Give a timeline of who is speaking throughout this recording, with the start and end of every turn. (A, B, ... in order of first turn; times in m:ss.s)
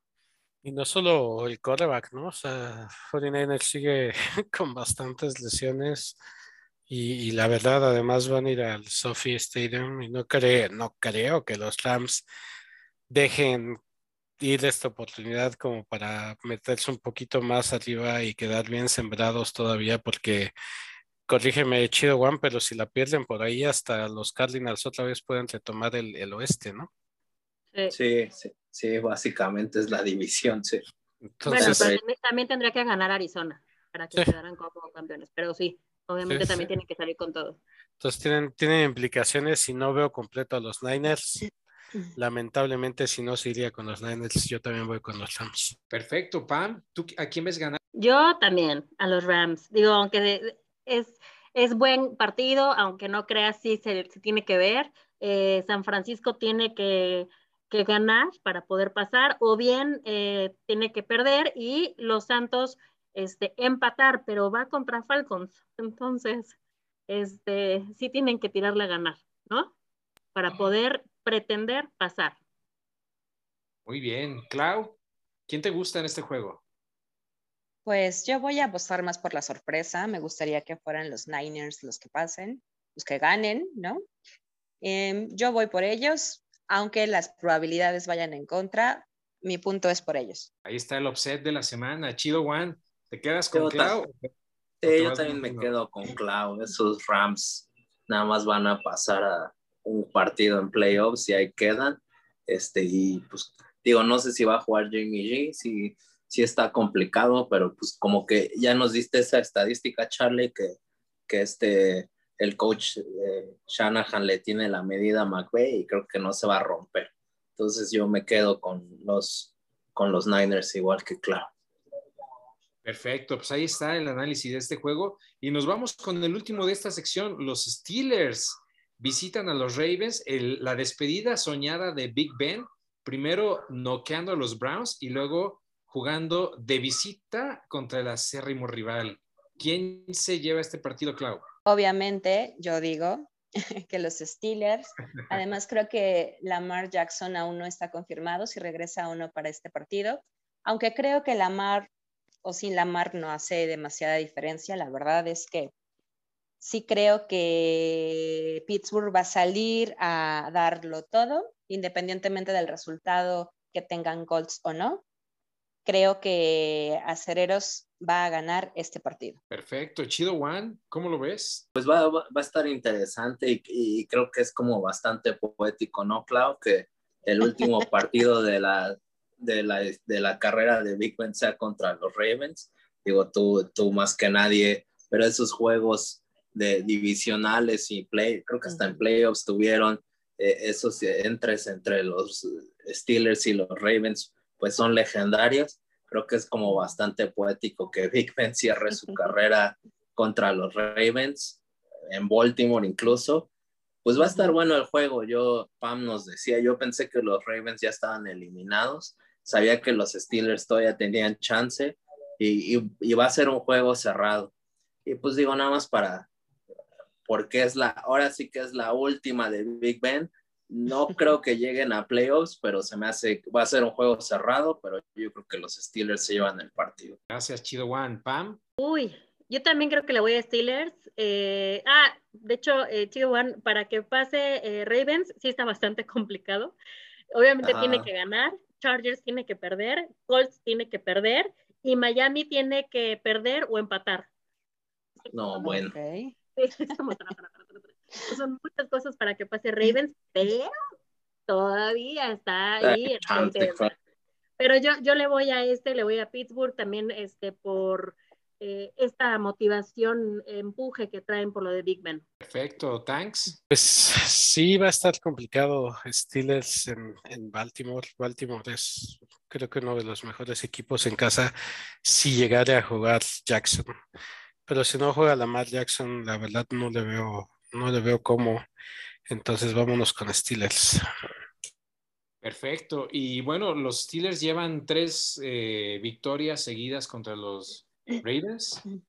0:00.6-0:06.2 A
0:06.9-0:12.2 A
0:13.1-0:13.8 A
0:14.4-0:20.5 A
0:21.3-0:26.9 A
0:27.9-0:30.8 B
0:31.4-0:31.9 A
0:31.4-0:37.6 C
0:31.6-0:32.0 B
0:36.2-0:36.7 A
0:38.0-0:41.4 A
0:42.2-0:45.7 A
0:45.9-0:47.8 D
0:48.0-1:06.5 C
1:07.1-1:09.7 C
1:10.4-1:12.4 C
1:13.9-1:16.6 D
1:17.8-1:24.0 E
1:24.8-1:30.5 E
1:30.6-1:34.3 D
1:33.5-1:34.0 B
1:34.8-1:50.8 B
1:34.8-1:35.7 D
1:51.3-2:01.5 B
2:02.8-2:21.4 D
2:21.7-2:23.3 E
2:23.9-2:31.9 E
2:32.4-2:35.7 E
2:36.6-2:45.0 E
2:45.8-2:49.4 E
2:49.5-2:51.6 D
2:51.7-3:23.5 B
3:24.0-3:34.5 B
3:35.0-3:36.3 B
3:37.3-3:47.2 B
3:47.3-3:48.6 D
3:48.8-3:56.8 C
3:57.3-4:04.3 C
3:57.6-3:58.1 B
4:05.3-4:05.9 B
4:05.6-4:06.3 E
4:06.6-4:10.7 C
4:11.5-4:13.8 C
4:12.8-4:13.9 B
4:14.6-4:22.2 C
4:22.4-4:23.6 D
4:23.7-4:33.9 A
4:34.7-4:38.6 A
4:39.3-4:41.0 A
4:42.4-4:48.8 D